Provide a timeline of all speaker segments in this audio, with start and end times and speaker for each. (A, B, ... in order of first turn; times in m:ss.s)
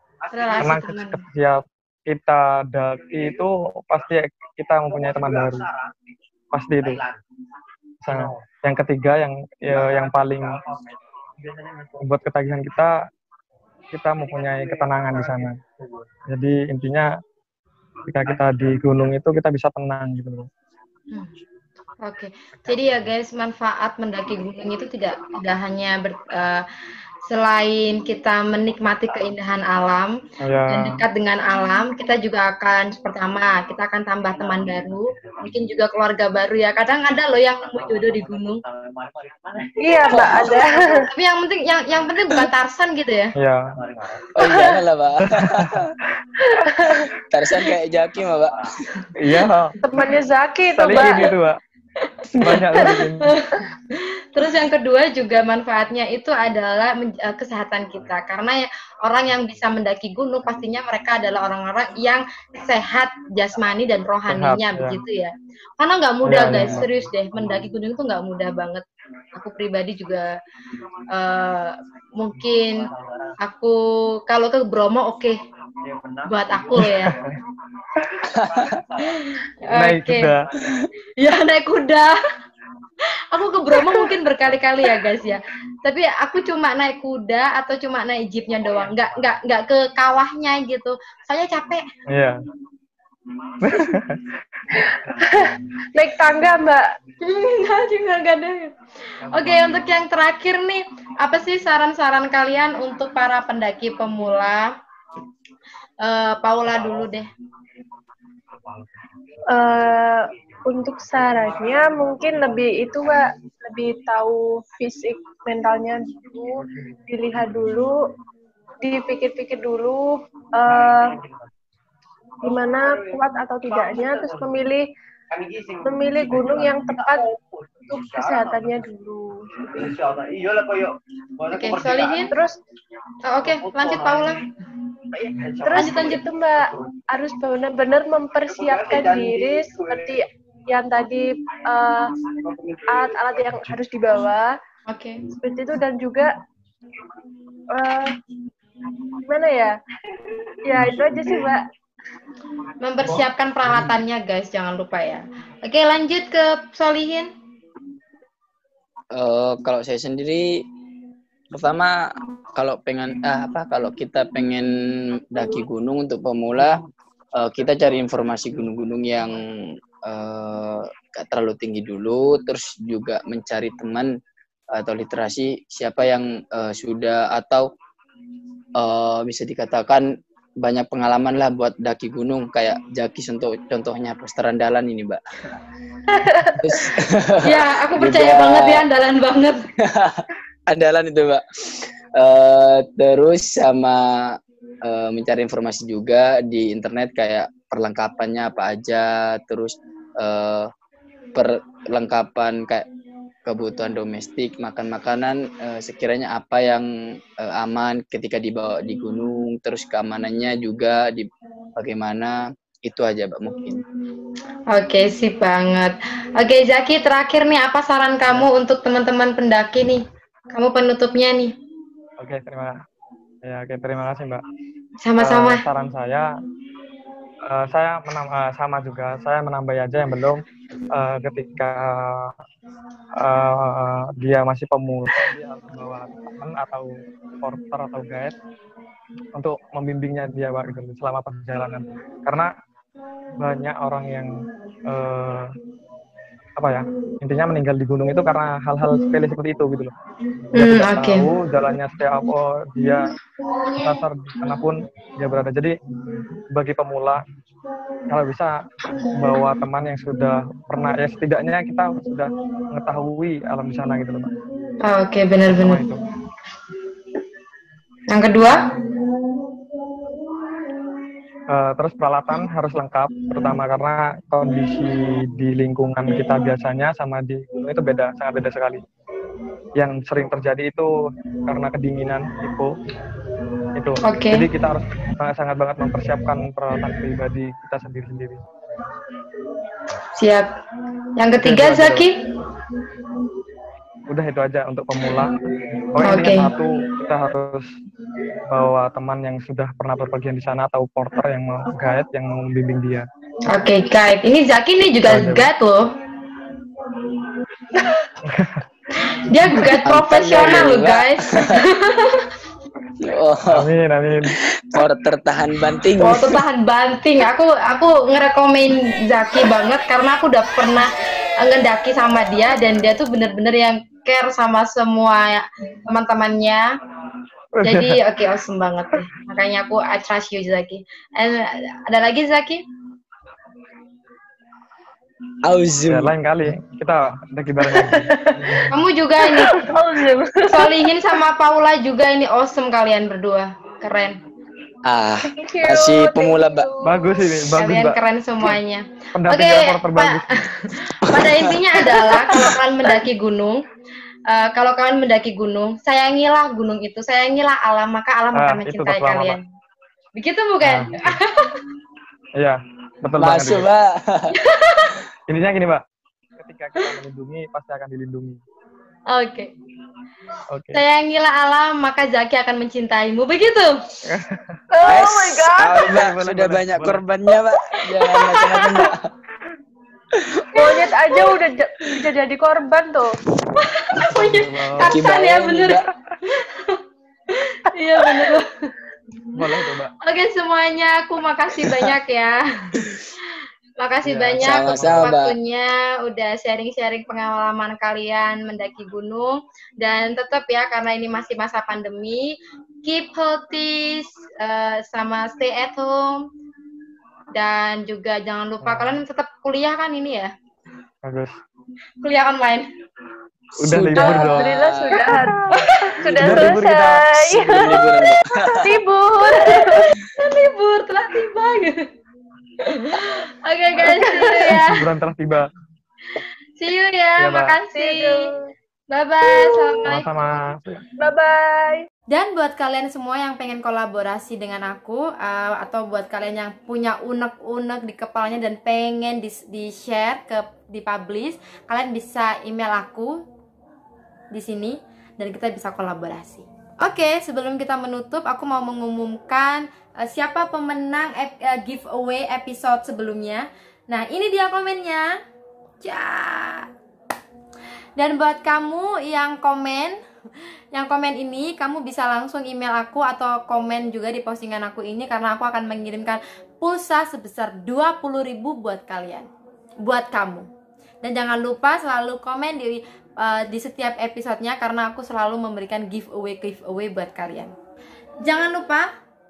0:00.2-0:00.8 A
0:00.3-0:01.2 B
0:00.6-0:05.6 C
0:03.0-0:03.5 A
0:04.9-0:05.9 A
0:06.5-0:07.0 C
0:06.8-0:07.2 A
0:08.0-0:10.5 C
0:08.1-0:08.4 A
0:09.7-0:12.1 A
0:12.0-0:13.0 C
0:13.9-0:15.6 C
0:14.2-0:16.0 A
0:16.3-0:17.1 C
0:18.1-0:20.5 C
0:18.2-0:18.7 A
0:22.0-0:26.7 B
0:27.3-0:30.1 B
0:30.4-0:31.0 C
0:30.7-0:38.6 B
0:34.3-0:35.6 A
0:37.6-0:41.1 A
0:39.8-0:41.1 D
0:40.1-0:40.6 E
0:41.1-0:43.4 B
0:43.4-0:43.7 C
0:43.8-0:44.6 A
0:44.3-0:46.0 E
0:44.4-0:44.8 D
0:45.3-0:45.9 C
0:46.4-0:47.1 D
0:47.3-0:48.8 E
0:49.2-0:49.8 C
0:49.8-0:51.3 D
0:50.7-0:51.6 C
0:52.0-1:10.3 B
0:52.4-0:53.4 C
0:52.8-0:53.1 D
1:04.3-1:05.0 C
1:06.2-1:06.8 C
1:06.4-1:07.7 A
1:11.1-1:12.9 B
1:12.4-1:13.4 A
1:13.4-1:15.4 B
1:15.8-1:17.2 A
1:16.3-1:17.1 B
1:16.8-1:17.3 C
1:17.9-1:20.5 A
1:18.4-1:18.7 E
1:19.0-1:20.3 B
1:19.7-1:20.4 C
1:21.2-1:22.2 B
1:23.3-1:31.8 B
1:28.5-1:29.5 A
1:32.1-1:32.4 C
1:33.6-1:34.4 C
1:34.7-1:36.9 D
1:35.1-1:35.5 A
1:37.2-1:38.7 B
1:39.2-1:40.0 A
1:39.3-1:44.7 B
1:46.0-1:47.3 B
1:46.7-1:47.2 A
1:48.5-1:48.9 A
1:49.5-1:56.6 D
1:49.6-1:53.2 A
1:56.6-1:57.1 A
1:57.1-1:58.0 D
1:58.8-2:01.1 D
2:00.6-2:01.5 A
2:02.4-2:04.6 A
2:02.4-2:04.9 D
2:05.3-2:08.9 A
2:05.8-2:07.2 D
2:07.9-2:09.6 D
2:09.6-2:12.4 A
2:11.5-2:12.3 B
2:12.3-2:12.6 D
2:13.2-2:14.4 B
2:13.4-2:14.4 A
2:15.1-2:17.1 A
2:15.6-2:22.1 D
2:15.8-2:16.2 B
2:18.5-2:20.2 A
2:22.3-2:23.8 A
2:22.9-2:24.6 D
2:24.9-2:25.2 B
2:25.3-2:26.3 D
2:27.7-2:28.2 D
2:29.3-2:29.8 D
2:30.4-2:31.4 A
2:30.6-2:31.6 D
2:32.8-2:37.3 B
2:39.1-2:40.6 E
2:41.5-2:46.8 E
2:47.4-2:54.1 E
2:54.8-2:57.7 E
2:58.8-3:05.2 E
3:06.1-3:06.9 D
3:06.6-3:08.8 E
3:07.4-3:09.6 B
3:09.8-3:20.7 E
3:21.4-3:22.9 E
3:23.5-3:33.8 E
3:34.7-3:40.0 B
3:40.5-3:41.5 B
3:42.2-3:42.8 C
3:43.4-3:44.4 C
3:45.0-3:45.6 B
3:45.2-3:46.3 C
3:47.5-3:50.4 C
3:50.9-3:52.4 C
3:53.2-3:58.4 C
3:59.4-4:02.5 C
4:03.4-4:04.4 C
4:04.9-4:05.5 C
4:06.6-4:09.9 C
4:10.5-4:11.3 B
4:10.6-4:13.1 C
4:13.8-4:15.8 C
4:16.5-4:17.2 C
4:18.1-4:18.6 C
4:19.2-4:24.3 C
4:24.8-4:25.9 B
4:25.5-4:26.0 C
4:28.1-4:28.7 B
4:31.5-4:38.8 C
4:39.8-4:40.9 C
4:41.5-4:42.8 C
4:43.8-4:48.4 C
4:44.0-4:44.5 B
4:50.2-4:50.5 B
4:51.2-4:52.2 B
4:51.4-4:52.0 C
4:54.1-4:55.4 C
4:55.9-4:57.7 C
4:56.0-4:56.5 B
4:58.5-5:03.1 C
5:03.5-5:05.8 B
5:05.0-5:05.5 C
5:08.2-5:08.6 C
5:09.0-5:12.3 B
5:09.7-5:11.6 E
5:13.0-5:13.7 E
5:13.5-5:14.4 C
5:14.2-5:16.4 E
5:16.0-5:26.6 B
5:27.6-5:28.0 C
5:27.6-5:32.6 B
5:35.4-5:36.1 E
5:35.9-5:38.6 C
5:37.6-5:38.7 D
5:38.7-5:39.6 B
5:39.2-5:40.9 D
5:40.5-5:44.2 B
5:44.9-5:46.7 E
5:45.3-5:47.3 D
5:46.8-5:48.0 C
5:47.6-5:53.6 B
5:49.1-5:50.3 C
5:51.1-5:52.6 E
5:54.3-5:59.4 B
5:58.4-5:59.4 C
6:00.2-6:01.6 B
6:00.6-6:01.2 C
6:02.4-6:03.7 C
6:03.2-6:04.3 E
6:04.3-6:05.0 B
6:05.3-6:05.8 C
6:06.4-6:08.4 C
6:09.1-6:09.5 B
6:10.5-6:10.8 C
6:10.7-6:13.7 B
6:14.0-6:14.6 C
6:14.7-6:15.9 D
6:14.8-6:19.1 E
6:15.7-6:17.0 C
6:18.0-6:18.9 D
6:20.2-6:20.9 E
6:20.5-6:23.2 D
6:20.6-6:21.4 B
6:23.6-6:26.8 B
6:24.0-6:25.0 C
6:24.8-6:25.8 E
6:27.3-6:28.7 B
6:28.0-6:28.4 D
6:29.4-6:29.9 C
6:30.0-6:33.0 B
6:33.8-6:46.2 B
6:34.0-6:35.1 C
6:34.4-6:35.3 E
6:47.4-6:50.3 B
6:48.6-6:49.0 C
6:51.0-6:51.4 C
6:52.0-6:52.7 B
6:53.6-6:55.3 E
6:53.6-6:54.6 C
6:54.0-7:00.0 D
6:55.1-6:55.6 C
6:55.6-6:56.0 B
6:56.0-6:58.8 E
6:56.2-6:57.4 C
6:59.2-7:01.8 B
7:02.6-7:04.8 B
7:03.8-7:04.6 D
7:04.6-7:05.5 C
7:06.6-7:08.2 B
7:07.2-7:07.6 C
7:07.7-7:08.5 D
7:08.9-7:10.1 B
7:09.3-7:10.0 D
7:09.9-7:10.8 C
7:11.0-7:11.9 D
7:12.1-7:23.2 B
7:24.3-7:35.1 B
7:35.8-7:36.7 B
7:38.0-7:40.0 B
7:40.7-7:49.3 B
7:49.8-7:50.5 B
7:51.0-7:57.5 B
7:58.2-7:58.9 B